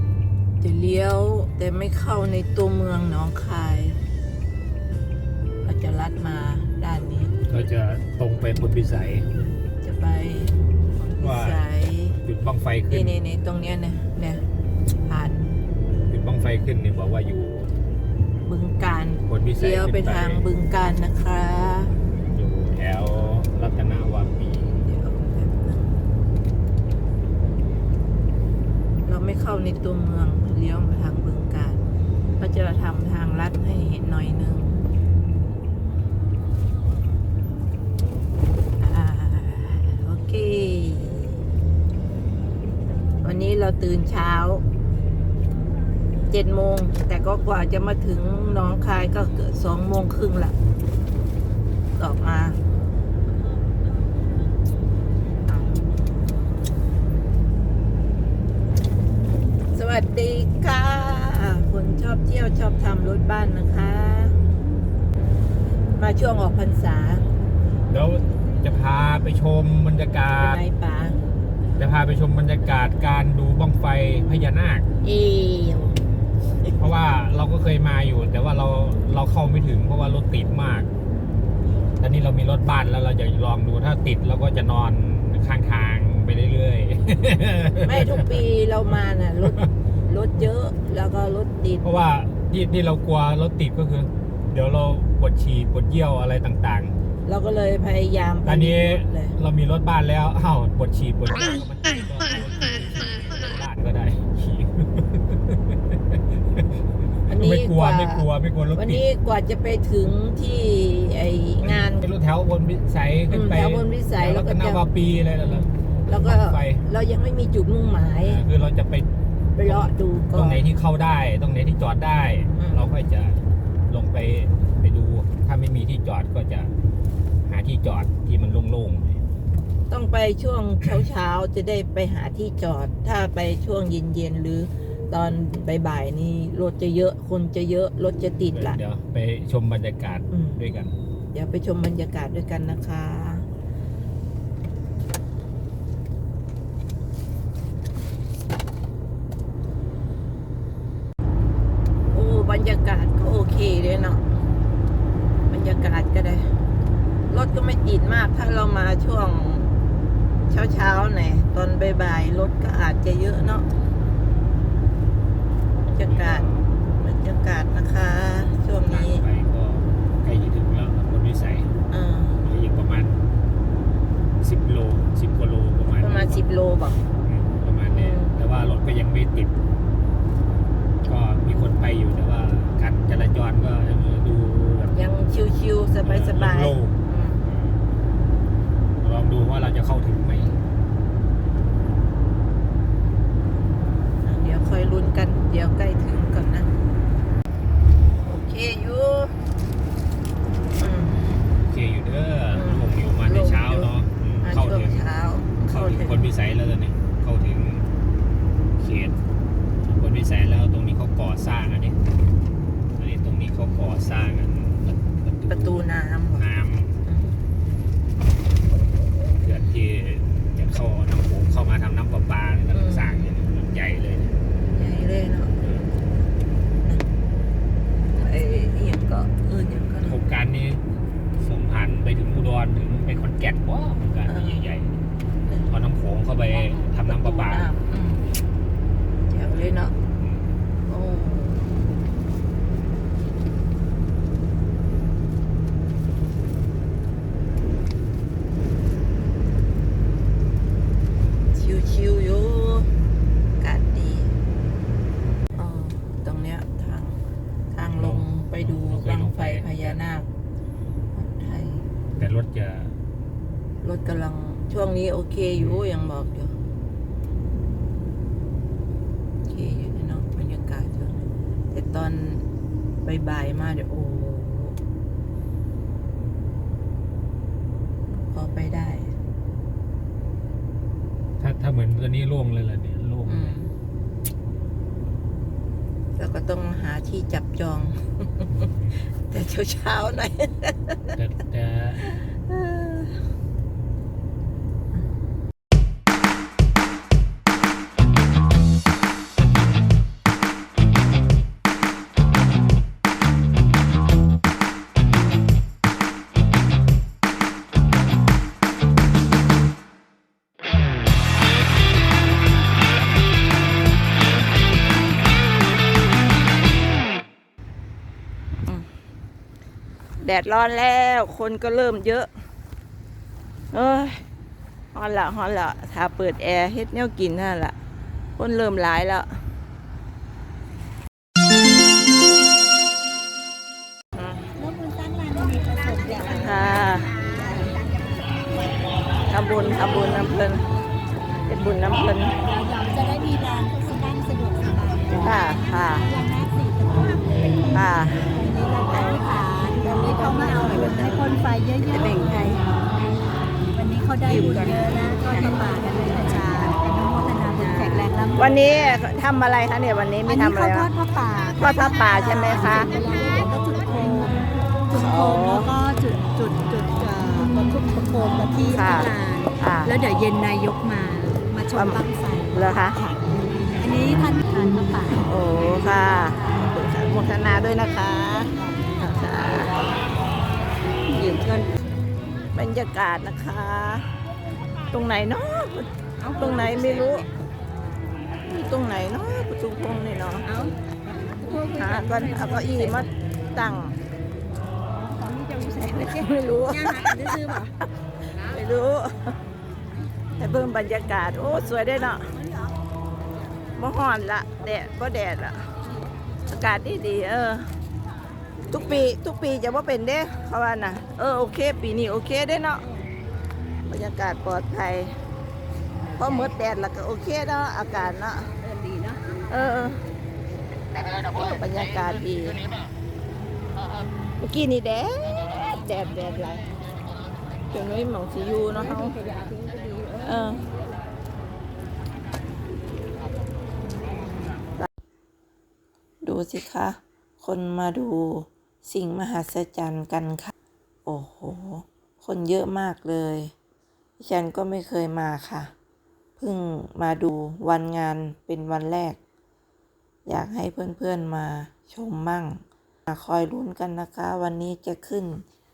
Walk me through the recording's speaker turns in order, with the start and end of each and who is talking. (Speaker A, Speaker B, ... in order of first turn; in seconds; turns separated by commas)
Speaker A: 0.6-4.0, Speaker A: 5.6-7.3, Speaker B: 7.5-9.3, Speaker A: 9.8-12.2, Speaker B: 11.2-11.6, Speaker B: 12.2-13.2, Speaker A: 12.9-14.4, Speaker A: 15.1-15.5, Speaker B: 15.9-17.7, Speaker A: 18.4-21.9, Speaker B: 19.3-20.5, Speaker B: 22.2-24.8, Speaker A: 24.8-26.0, Speaker A: 29.1-31.8, Speaker A: 32.4-34.8, Speaker A: 38.8-41.4, Speaker A: 43.2-44.6, Speaker A: 46.3-50.5, Speaker A: 52.0-52.6, Speaker A: 55.5-55.8, Speaker A: 59.7-64.4, Speaker A: 66.0-67.2, Speaker B: 67.9-70.6, Speaker A: 70.4-71.2, Speaker B: 71.8-74.8, Speaker A: 75.0-76.0, Speaker B: 76.8-80.9, Speaker B: 82.0-88.4, Speaker A: 87.8-91.9, Speaker B: 91.8-96.9, Speaker A: 97.3-99.4, Speaker B: 98.4-109.0, Speaker A: 107.3-112.1, Speaker B: 111.6-116.8, Speaker A: 113.3-114.8, Speaker A: 115.4-118.4, Speaker B: 118.2-119.1, Speaker A: 119.5-120.6, Speaker B: 119.6-126.7, Speaker A: 122.5-122.9, Speaker B: 127.5-129.2, Speaker A: 129.9-138.8, Speaker B: 138.5-140.9, Speaker A: 140.3-140.6, Speaker A: 141.3-143.4, Speaker A: 152.1-154.2, Speaker A: 155.5-156.5, Speaker A: 157.3-159.7, Speaker A: 160.5-163.7, Speaker A: 165.9-166.4, Speaker B: 165.9-166.7, Speaker A: 167.0-169.2, Speaker B: 168.9-171.7, Speaker A: 171.9-172.4, Speaker B: 172.4-173.2, Speaker B: 174.4-176.4, Speaker A: 176.0-177.1, Speaker B: 177.2-179.5, Speaker A: 177.9-178.3, Speaker B: 181.0-184.9, Speaker A: 184.9-187.4, Speaker B: 186.0-187.8, Speaker B: 189.0-190.6, Speaker A: 194.2-196.7, Speaker A: 198.2-199.3, Speaker A: 200.8-201.4, Speaker B: 201.6-205.1, Speaker A: 202.5-206.3, Speaker B: 205.7-207.9, Speaker B: 208.8-209.2, Speaker B: 209.8-212.0, Speaker B: 213.0-216.9, Speaker A: 215.5-216.4, Speaker A: 217.0-217.3, Speaker B: 219.4-224.3, Speaker A: 222.7-223.2, Speaker A: 224.6-225.5, Speaker B: 225.6-225.9, Speaker A: 228.1-230.2, Speaker B: 230.0-230.8, Speaker B: 231.4-235.0, Speaker A: 234.3-234.7, Speaker B: 235.7-237.7, Speaker A: 236.5-238.2, Speaker A: 239.3-239.9, Speaker B: 240.2-240.5, Speaker A: 240.9-241.7, Speaker A: 251.5-252.9, Speaker A: 253.6-254.3, Speaker A: 255.6-257.2, Speaker A: 257.7-260.3, Speaker B: 257.9-260.0, Speaker A: 261.1-261.9, Speaker B: 262.1-262.9, Speaker A: 263.8-266.5, Speaker B: 265.6-265.8, Speaker A: 269.4-272.4, Speaker A: 273.0-274.8, Speaker A: 278.3-279.1, Speaker B: 281.4-283.6, Speaker A: 283.3-283.7, Speaker A: 286.2-291.2, Speaker B: 291.1-292.0, Speaker A: 292.0-293.2, Speaker A: 320.2-322.3, Speaker A: 323.7-324.2, Speaker A: 324.9-327.8, Speaker A: 328.4-329.4, Speaker A: 334.1-334.5, Speaker C: 334.6-337.8, Speaker A: 336.2-337.1, Speaker A: 339.3-340.6, Speaker A: 341.5-342.3, Speaker C: 342.3-353.0, Speaker A: 345.1-346.1, Speaker A: 347.7-348.3, Speaker A: 349.8-351.2, Speaker C: 353.7-358.9, Speaker A: 354.2-355.6, Speaker A: 357.6-360.9, Speaker C: 360.3-373.2, Speaker A: 361.6-362.9, Speaker A: 364.9-365.7, Speaker A: 368.7-369.9, Speaker A: 371.7-372.0, Speaker A: 372.5-373.0, Speaker C: 373.8-375.3, Speaker A: 375.2-379.8, Speaker C: 376.3-376.6, Speaker C: 378.6-380.0, Speaker C: 381.0-381.7, Speaker A: 382.5-384.2, Speaker A: 384.9-387.2, Speaker C: 386.2-387.2, Speaker A: 388.5-390.4, Speaker C: 390.4-393.1, Speaker A: 391.7-394.0, Speaker C: 395.0-397.7, Speaker A: 395.8-397.6, Speaker A: 398.4-399.4, Speaker A: 400.4-402.3, Speaker C: 402.3-402.7, Speaker A: 403.8-405.7, Speaker A: 406.4-407.7, Speaker A: 408.7-412.8, Speaker A: 413.9-415.1, Speaker A: 416.2-418.5, Speaker C: 418.6-419.4, Speaker A: 419.5-420.0, Speaker A: 421.2-422.6, Speaker A: 424.4-426.7, Speaker A: 427.7-429.1, Speaker C: 428.8-430.6, Speaker A: 430.2-430.6, Speaker A: 436.2-440.5, Speaker A: 441.1-443.5, Speaker A: 444.2-445.7, Speaker A: 446.4-449.2, Speaker A: 450.3-455.4